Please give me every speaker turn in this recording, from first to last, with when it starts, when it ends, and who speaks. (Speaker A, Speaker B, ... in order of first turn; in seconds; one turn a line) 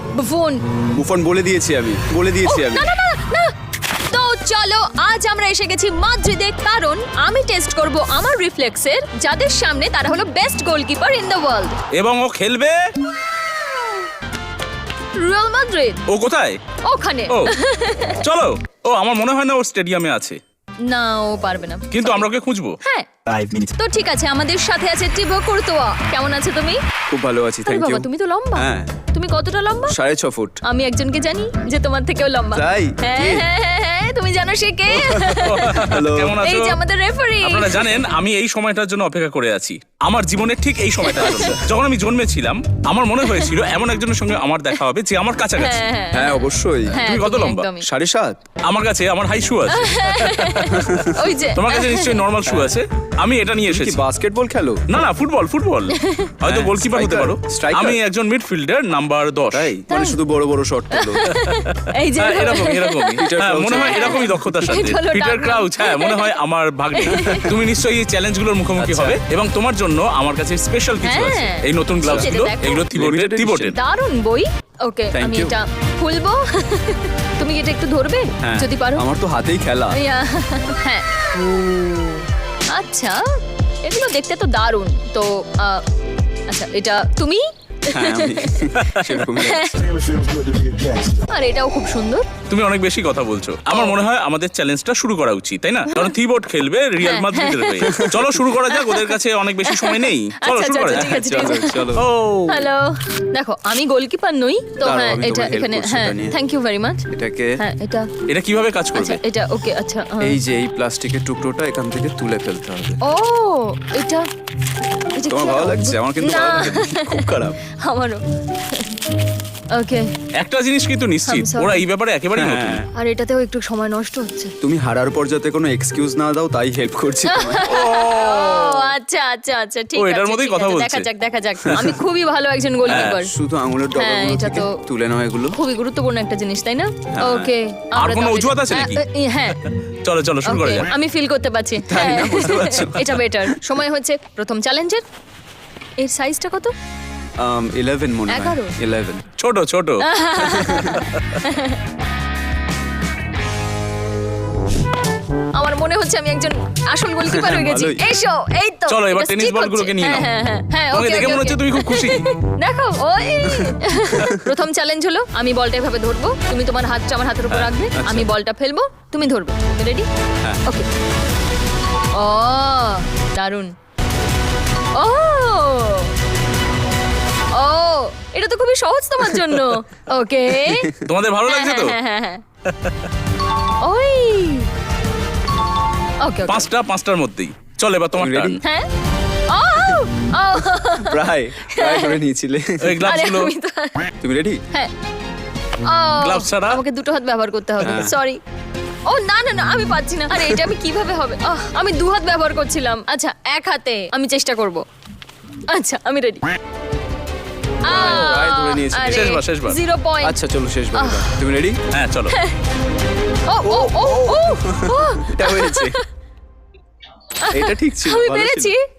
Speaker A: 0.1-0.6
Speaker B: 0.9-2.9
Speaker A: 2.5-3.5
Speaker A: 4.1-11.8
Speaker C: 11.9-12.8
Speaker A: 15.2-16.0
Speaker C: 16.1-16.6
Speaker A: 16.8-18.2
Speaker C: 17.3-17.6
Speaker C: 18.2-20.4
Speaker A: 20.9-22.2
Speaker C: 21.9-22.8
Speaker A: 22.8-23.1
Speaker B: 23.3-23.7
Speaker A: 23.8-26.8
Speaker B: 27.1-28.9
Speaker A: 27.6-29.9
Speaker B: 29.9-30.6
Speaker A: 30.6-38.0
Speaker B: 32.5-33.5
Speaker B: 34.9-36.5
Speaker C: 35.4-36.8
Speaker C: 37.4-45.8
Speaker A: 41.0-41.6
Speaker A: 43.2-43.5
Speaker A: 45.6-47.9
Speaker B: 46.1-47.0
Speaker C: 46.9-47.7
Speaker B: 47.8-48.4
Speaker C: 48.6-54.0
Speaker A: 49.7-52.2
Speaker B: 50.8-51.1
Speaker B: 52.4-52.8
Speaker B: 53.6-54.8
Speaker C: 54.9-59.7
Speaker A: 55.9-56.3
Speaker B: 56.4-58.0
Speaker B: 59.5-61.3
Speaker A: 59.9-60.2
Speaker A: 60.9-66.4
Speaker C: 61.2-73.8
Speaker B: 63.2-64.5
Speaker A: 67.0-67.5
Speaker B: 67.1-67.6
Speaker B: 68.8-69.2
Speaker A: 71.0-72.9
Speaker B: 72.0-72.3
Speaker B: 72.9-73.8
Speaker A: 73.7-79.0
Speaker B: 75.1-75.6
Speaker B: 78.4-80.0
Speaker A: 79.9-83.2
Speaker A: 83.8-85.8
Speaker A: 86.5-88.7
Speaker B: 87.9-90.0
Speaker C: 88.8-89.2
Speaker A: 89.4-92.3
Speaker C: 92.5-102.7
Speaker A: 93.7-94.0
Speaker A: 95.9-96.1
Speaker A: 97.0-101.9
Speaker B: 97.8-98.2
Speaker B: 100.9-102.1
Speaker A: 102.5-107.0
Speaker B: 104.8-106.3
Speaker B: 107.1-107.6
Speaker A: 107.6-108.1
Speaker C: 108.3-109.2
Speaker A: 108.9-110.4
Speaker B: 110.2-113.0
Speaker A: 113.0-114.2
Speaker A: 115.1-118.9
Speaker B: 115.3-117.6
Speaker A: 119.7-120.1
Speaker C: 120.4-122.8
Speaker A: 121.3-121.8
Speaker B: 122.3-122.9
Speaker A: 122.9-124.5
Speaker B: 124.6-127.7
Speaker A: 127.3-133.3
Speaker C: 127.7-128.9
Speaker C: 129.9-131.1
Speaker B: 131.7-131.9
Speaker C: 132.9-133.2
Speaker B: 132.9-135.6
Speaker A: 133.9-134.8
Speaker A: 135.5-139.6
Speaker B: 137.1-137.5
Speaker C: 137.9-139.0
Speaker C: 140.0-140.9
Speaker A: 140.4-145.0
Speaker B: 141.8-143.1
Speaker A: 146.0-146.7
Speaker B: 147.4-149.2
Speaker A: 148.3-148.7
Speaker C: 149.4-150.0
Speaker A: 150.0-151.8
Speaker B: 150.4-151.1
Speaker A: 155.5-170.1
Speaker B: 157.2-158.0
Speaker C: 158.9-160.3
Speaker C: 160.9-162.3
Speaker B: 163.4-164.5
Speaker B: 167.6-168.3
Speaker A: 172.1-173.7
Speaker A: 174.9-176.1
Speaker A: 177.5-180.9
Speaker C: 179.3-179.7
Speaker B: 180.6-180.9
Speaker C: 181.0-181.9
Speaker A: 181.5-182.4
Speaker A: 183.8-184.7
Speaker A: 186.2-186.7
Speaker C: 186.5-188.6
Speaker B: 188.2-188.6
Speaker A: 188.6-188.9
Speaker A: 189.5-192.2
Speaker B: 191.0-193.1
Speaker C: 192.8-193.5
Speaker A: 193.0-194.1
Speaker B: 194.2-194.6
Speaker A: 195.8-198.4
Speaker C: 196.2-196.8
Speaker B: 197.8-198.1
Speaker A: 199.1-204.8
Speaker A: 205.7-206.5
Speaker A: 207.8-210.4
Speaker B: 207.8-209.4
Speaker C: 209.0-209.8
Speaker B: 210.2-211.8
Speaker A: 210.9-211.3
Speaker C: 211.9-212.4
Speaker A: 212.3-212.5
Speaker A: 213.5-216.0
Speaker B: 213.6-216.0
Speaker A: 217.4-218.8
Speaker B: 217.5-218.7